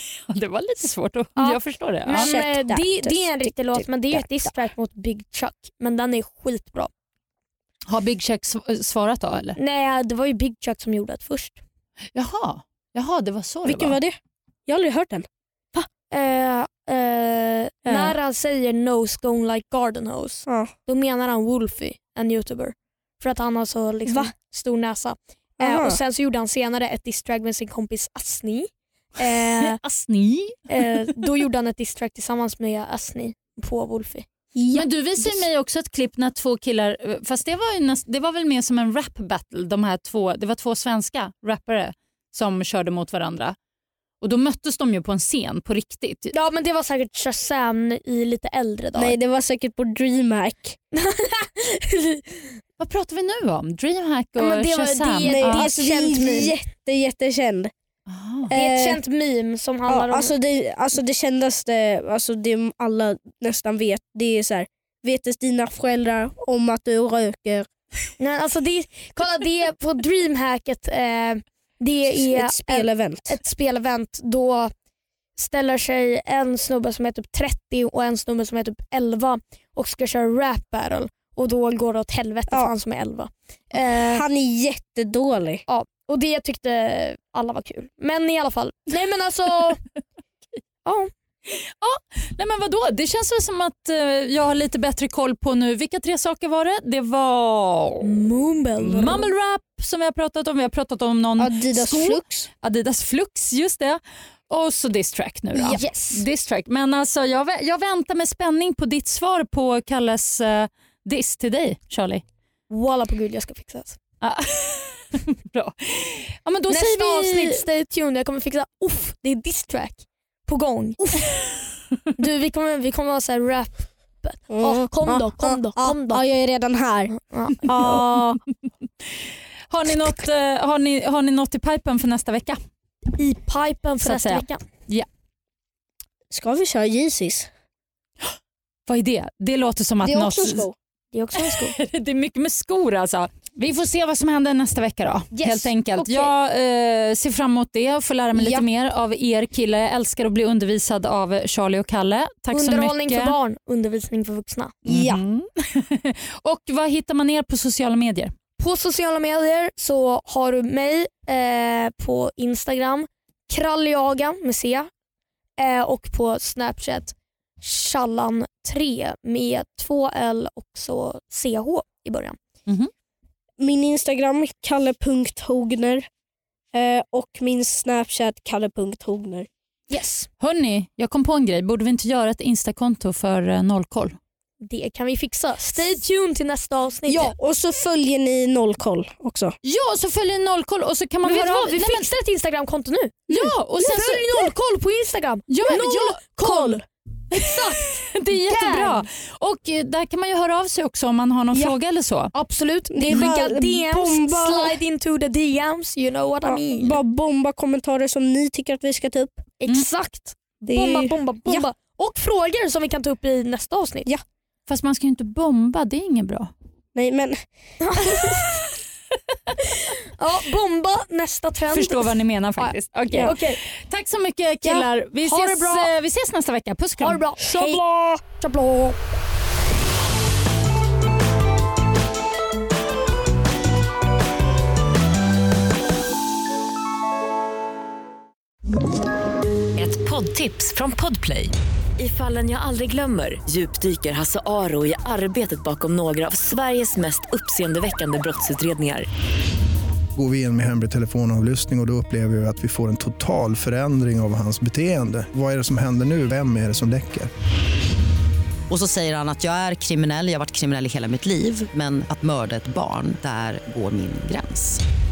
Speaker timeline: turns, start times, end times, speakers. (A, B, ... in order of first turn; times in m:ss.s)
0:00.3-0:02.4 A
0:01.4-0:06.9 B
0:02.1-0:04.5 C
0:07.9-0:09.6 A
0:09.6-0:11.6 B
0:12.1-0:14.0 A
0:13.6-0:15.8 C
0:16.1-0:29.8 B
0:17.9-0:18.2 C
0:24.1-0:24.3 C
0:25.6-0:26.0 C
0:29.6-0:30.7 A
0:30.7-0:34.3 B
0:34.6-0:35.4 C
0:34.7-0:43.6 A
0:44.2-0:46.4 A
0:46.3-0:49.2 B
0:49.0-0:50.8 C
0:50.9-0:52.5 B
0:52.8-0:55.7 A
0:54.4-0:56.6 B
0:55.3-0:57.7 C
0:58.1-0:58.5 A
0:58.5-0:59.0 C
0:58.5-1:00.3 B
0:59.9-1:07.7 C
1:08.2-1:14.7 B
1:12.1-1:13.4 C
1:15.4-1:24.2 B
1:23.8-1:25.6 C
1:25.7-1:29.8 B
1:30.8-1:31.1 B
1:31.5-1:38.2 A
1:38.0-1:39.3 B
1:38.8-1:52.2 A
1:41.4-1:42.5 C
1:45.6-1:45.8 C
1:45.6-1:46.2 B
1:52.7-1:54.0 B
1:54.2-1:57.6 A
1:56.7-2:01.3 B
2:01.1-2:01.6 A
2:02.2-2:06.2 B
2:04.5-2:08.4 C
2:07.1-2:07.8 B
2:07.7-2:08.0 A
2:09.7-2:12.6 A
2:13.1-2:14.6 B
2:14.0-2:15.1 A
2:16.3-2:17.5 C
2:18.9-2:20.7 A
2:20.0-2:20.8 C
2:21.1-2:21.8 B
2:21.4-2:33.4 A
2:25.3-2:26.3 B
2:28.3-2:28.7 C
2:32.5-2:34.8 B
2:34.9-2:35.2 C
2:34.9-2:38.3 A
2:38.6-2:44.9 B
2:45.6-2:52.4 B
2:53.6-2:56.1 C
2:56.7-2:59.5 C
2:59.9-3:00.3 B
3:00.4-3:04.2 A
3:04.6-3:07.4 B
3:07.1-3:09.6 C
3:09.6-3:12.1 A
3:11.2-3:13.2 B
3:13.3-3:13.6 C
3:13.3-3:14.4 A
3:13.8-3:19.0 B
3:15.5-3:16.2 A
3:16.4-3:16.8 C
3:17.3-3:22.3 A
3:22.3-3:27.0 B
3:22.9-3:24.8 C
3:23.1-3:23.4 A
3:26.4-3:29.4 C
3:29.6-3:34.1 B
3:30.6-3:31.7 C
3:34.7-3:36.5 A
3:37.0-3:37.4 C
3:37.8-3:38.6 B
3:39.8-3:43.6 B
3:41.7-3:47.2 A
3:45.2-3:45.9 B
3:47.0-3:49.0 B
3:47.4-3:47.8 C
3:59.8-4:09.1 D
4:10.2-4:17.3 E
4:18.7-4:24.8 F